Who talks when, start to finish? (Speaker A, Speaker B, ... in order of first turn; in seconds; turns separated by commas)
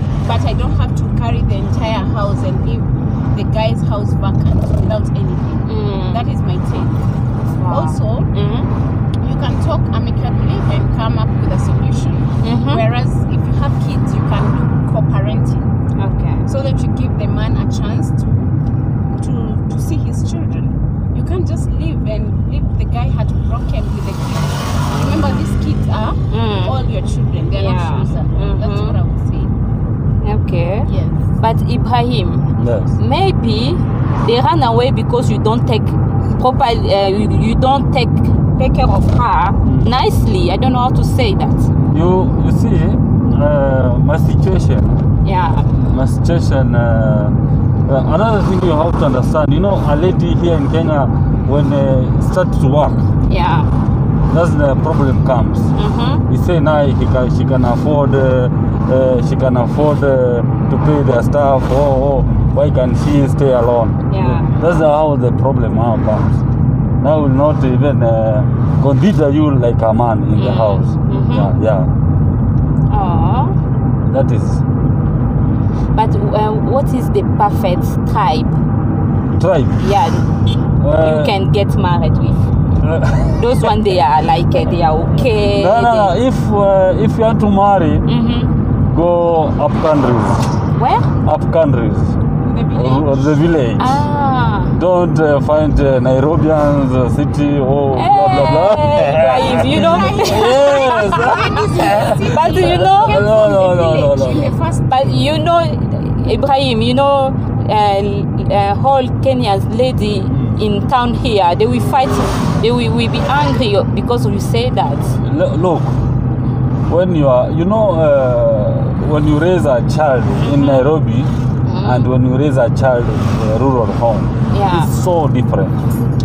Speaker A: 0.2-7.0, Speaker B: 5.7-6.2, Speaker B: 7.5-8.7, Speaker A: 7.7-8.3, Speaker A: 9.2-15.7, Speaker B: 12.4-12.8, Speaker B: 16.0-16.4, Speaker A: 16.4-18.4, Speaker A: 19.2-29.5, Speaker B: 25.1-25.4, Speaker B: 26.3-26.8, Speaker B: 27.5-29.0, Speaker B: 30.2-41.7, Speaker A: 30.9-31.3, Speaker C: 32.6-33.0, Speaker C: 41.9-45.0, Speaker B: 45.2-45.7, Speaker C: 45.9-47.4, Speaker C: 47.9-53.1, Speaker B: 53.3-53.7, Speaker C: 54.3-55.7, Speaker B: 55.8-56.2, Speaker C: 56.3-66.4, Speaker B: 64.1-64.5, Speaker C: 67.0-71.9, Speaker B: 70.3-71.5, Speaker B: 72.9-73.6, Speaker C: 74.1-74.6, Speaker B: 75.9-78.6, Speaker C: 79.3-79.8, Speaker B: 79.8-80.3, Speaker C: 80.8-81.3, Speaker B: 81.0-82.5, Speaker C: 82.8-83.9, Speaker B: 83.3-86.1, Speaker C: 85.5-88.0, Speaker B: 88.1-88.5, Speaker C: 88.9-90.4, Speaker B: 90.8-91.1, Speaker C: 91.2-92.2, Speaker A: 92.4-93.5, Speaker C: 92.7-94.0, Speaker B: 93.8-94.8, Speaker C: 94.7-104.5, Speaker B: 97.9-101.4, Speaker A: 99.4-105.3, Speaker B: 102.2-103.3, Speaker B: 104.9-115.2, Speaker C: 110.3-110.5, Speaker C: 115.2-115.9, Speaker C: 116.9-121.3, Speaker B: 120.4-120.9, Speaker B: 121.6-122.1, Speaker C: 121.8-125.8, Speaker B: 124.5-124.9